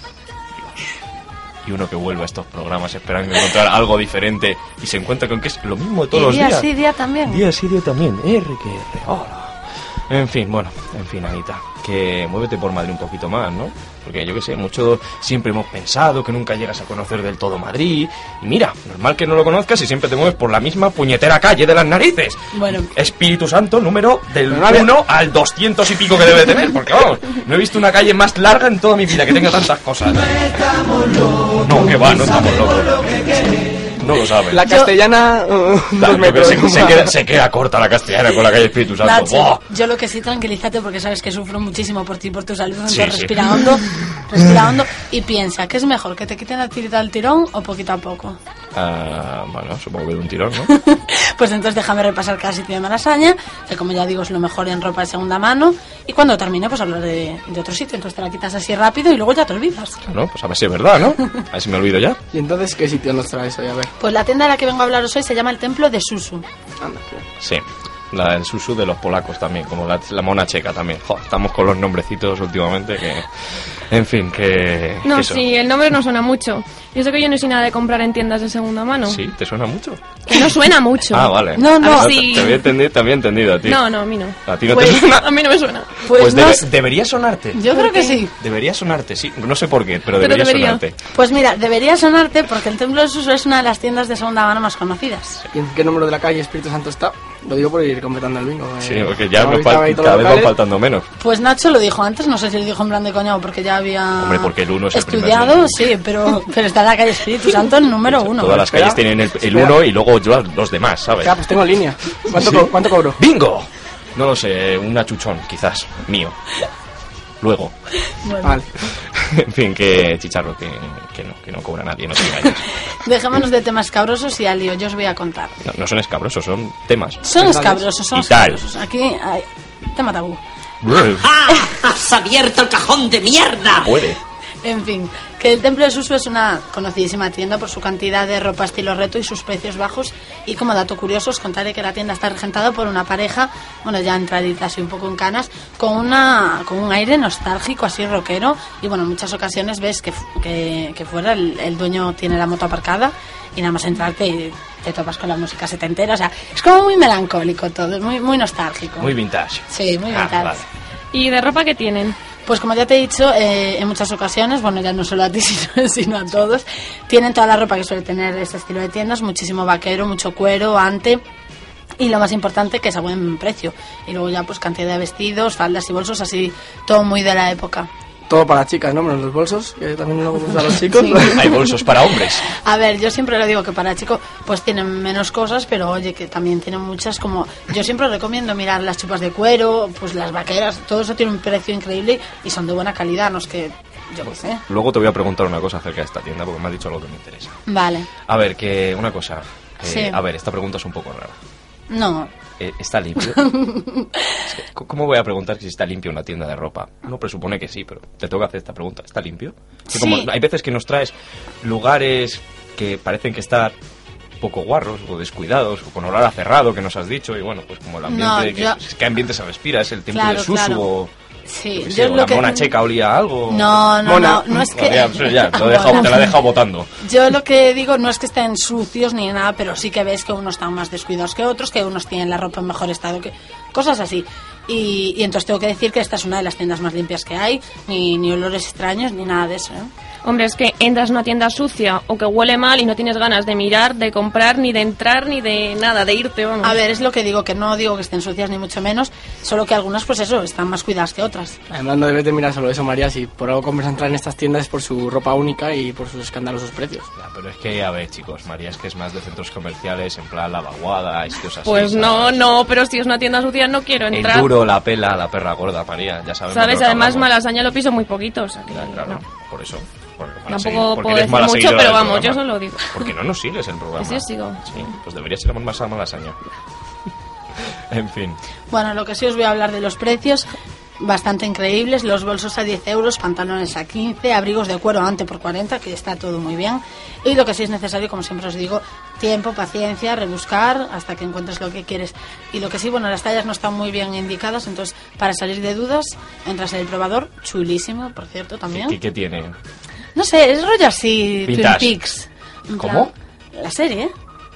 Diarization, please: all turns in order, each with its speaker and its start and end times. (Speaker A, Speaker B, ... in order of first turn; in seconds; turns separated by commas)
Speaker A: 1.6-6.7, Speaker B: 6.1-7.4, Speaker A: 7.3-30.5, Speaker B: 22.5-22.9, Speaker C: 24.5-24.9, Speaker A: 31.6-33.3, Speaker A: 34.0-34.6, Speaker C: 34.5-37.1, Speaker B: 34.6-34.9, Speaker A: 36.0-39.6, Speaker B: 39.0-48.4, Speaker A: 42.9-43.7, Speaker A: 48.7-50.7, Speaker B: 50.7-60.0, Speaker A: 60.1-62.2, Speaker C: 62.3-63.9, Speaker B: 64.0-66.5, Speaker C: 66.8-67.2, Speaker A: 67.4-75.4, Speaker D: 75.0-79.2, Speaker A: 79.0-80.5, Speaker D: 80.3-82.7, Speaker A: 81.1-83.9, Speaker B: 81.5-82.1, Speaker D: 83.6-86.1, Speaker A: 84.4-85.3, Speaker B: 86.0-86.6, Speaker A: 86.1-87.7, Speaker B: 87.5-88.3, Speaker D: 87.7-88.2, Speaker A: 88.3-91.0, Speaker D: 90.2-90.8, Speaker B: 91.1-95.4, Speaker C: 95.5-100.5, Speaker A: 98.8-101.1, Speaker B: 101.2-108.7, Speaker A: 104.2-105.8, Speaker A: 108.0-111.3, Speaker C: 108.6-109.7, Speaker C: 111.2-113.2, Speaker A: 112.3-116.4, Speaker A: 117.4-117.7, Speaker B: 118.2-118.5, Speaker C: 118.4-118.7, Speaker A: 119.1-122.7, Speaker B: 122.9-125.6, Speaker A: 125.6-127.2, Speaker B: 127.2-130.4, Speaker C: 127.3-127.8, Speaker A: 128.1-128.6, Speaker A: 130.8-131.3, Speaker A: 133.8-134.2, Speaker B: 134.6-159.1, Speaker A: 159.0-160.7, Speaker B: 159.7-160.5, Speaker D: 161.1-162.2, Speaker B: 162.4-171.2, Speaker B: 172.0-177.9, Speaker C: 178.3-181.5, Speaker A: 181.3-182.4, Speaker B: 182.5-194.6, Speaker A: 194.7-197.6, Speaker B: 197.7-198.1, Speaker A: 198.3-201.4, Speaker B: 199.8-200.2, Speaker B: 201.9-202.3, Speaker A: 202.6-203.5, Speaker B: 203.3-204.4, Speaker A: 204.5-213.7, Speaker B: 209.9-210.3, Speaker A: 214.4-221.1, Speaker B: 218.1-218.8, Speaker B: 220.1-220.8, Speaker B: 221.4-222.7, Speaker A: 221.7-223.9, Speaker B: 223.5-226.3, Speaker C: 224.0-224.5, Speaker A: 224.7-226.9, Speaker B: 227.0-239.9, Speaker D: 240.2-246.8, Speaker B: 246.6-251.6, Speaker C: 251.7-257.1, Speaker A: 257.2-262.4, Speaker D: 261.6-264.5, Speaker A: 264.1-267.3, Speaker D: 266.5-269.2, Speaker A: 268.7-276.4, Speaker D: 270.5-273.0, Speaker D: 274.0-274.6, Speaker A: 277.9-278.4, Speaker B: 278.7-280.5, Speaker B: 281.0-299.0, Speaker A: 298.7-299.6, Speaker B: 300.1-304.1, Speaker A: 301.4-301.9, Speaker A: 302.8-303.1